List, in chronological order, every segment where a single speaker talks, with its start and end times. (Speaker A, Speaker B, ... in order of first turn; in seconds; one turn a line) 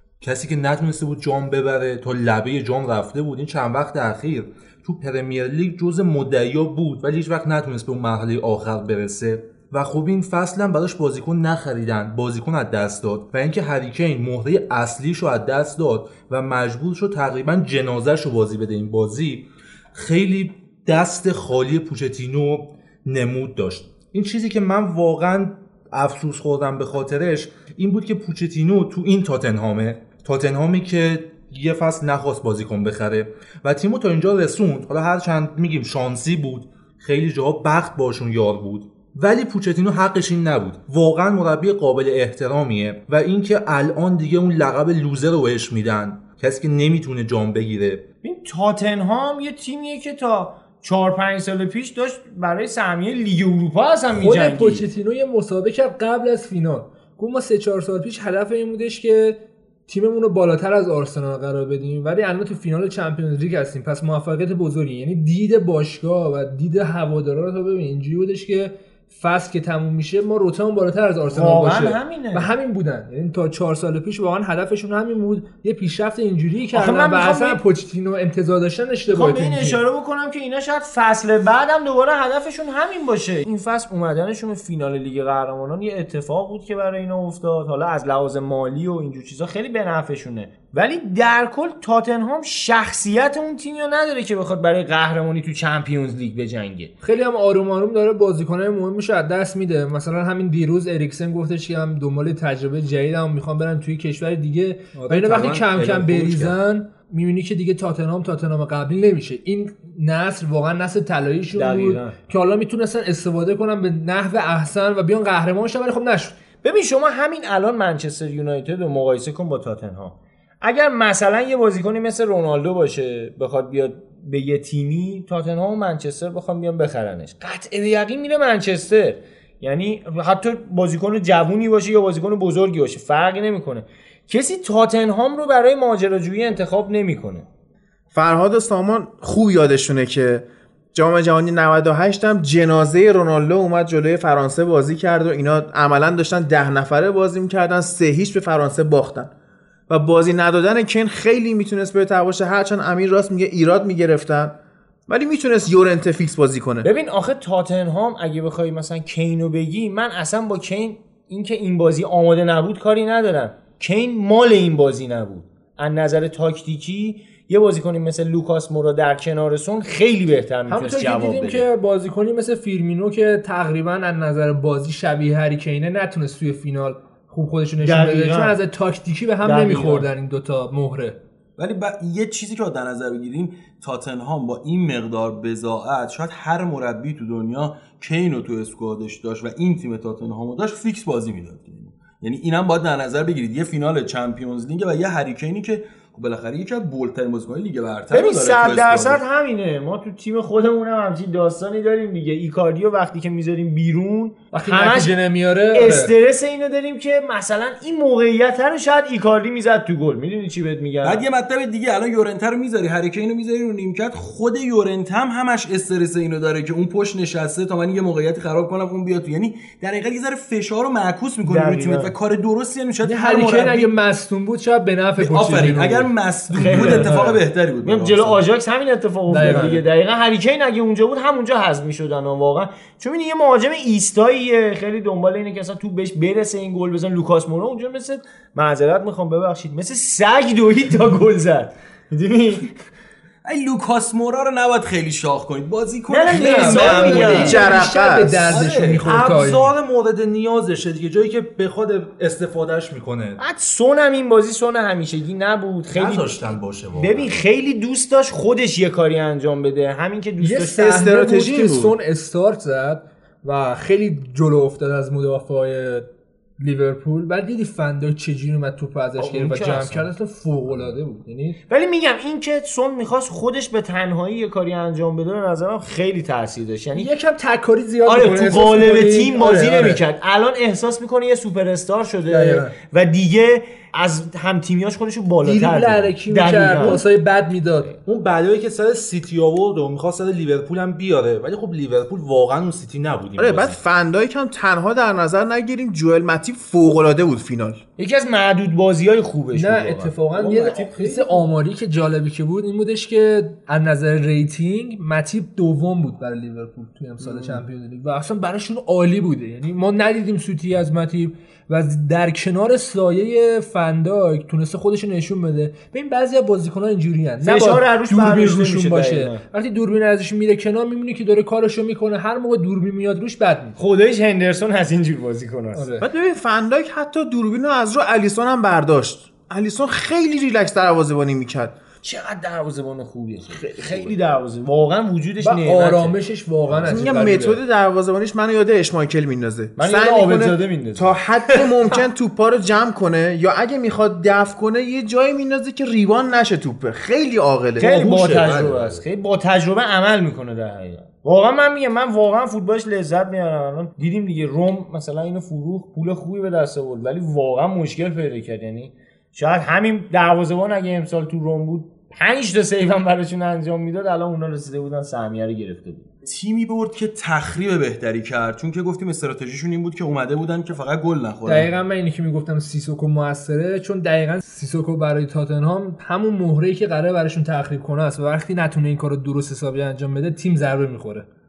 Speaker A: 0.2-48.0
Speaker B: 48.2-54.8
Speaker C: 54.1-79.8
Speaker B: 71.3-72.5
Speaker B: 76.7-77.6
Speaker B: 79.1-96.9
Speaker C: 97.0-116.4
Speaker A: 105.0-106.6
Speaker B: 111.5-112.2
Speaker B: 116.6-137.5
Speaker D: 138.1-149.3
Speaker D: 149.9-154.6
Speaker D: 155.1-156.9
Speaker B: 156.8-171.7
Speaker C: 170.7-181.2
Speaker B: 177.8-178.6
Speaker B: 179.4-180.1
Speaker E: 181.6-199.2
Speaker B: 198.1-205.2
Speaker C: 204.5-206.1
Speaker B: 205.7-211.2
Speaker E: 211.0-223.9
Speaker B: 221.4-222.1
Speaker C: 223.0-227.4
Speaker E: 225.2-228.4
Speaker B: 226.6-242.7
Speaker C: 229.3-229.8
Speaker E: 243.4-247.6
Speaker B: 246.1-247.6
Speaker C: 246.3-249.7
Speaker D: 247.4-248.6
Speaker E: 248.5-249.1
Speaker A: 248.5-253.4
Speaker B: 253.4-260.9
Speaker A: 255.9-257.4
Speaker C: 260.4-266.1
Speaker D: 260.8-262.0
Speaker C: 266.6-271.6
Speaker B: 269.2-270.1
Speaker B: 271.7-277.1
Speaker C: 276.9-280.0
Speaker B: 278.1-287.0
Speaker C: 282.3-282.7
Speaker C: 285.4-287.9
Speaker A: 288.1-293.8
Speaker D: 293.4-297.8
Speaker B: 298.0-301.5
Speaker C: 299.5-323.8
Speaker B: 307.2-307.6
Speaker B: 317.4-319.4
Speaker B: 323.8-325.9
Speaker C: 325.8-326.1
Speaker D: 326.0-331.8
Speaker B: 332.0-336.2
Speaker C: 335.4-337.6
Speaker B: 336.7-337.0
Speaker D: 336.9-347.9
Speaker B: 339.8-341.7
Speaker A: 347.8-349.0
Speaker B: 347.8-366.1
Speaker E: 366.2-371.7
Speaker C: 371.5-381.3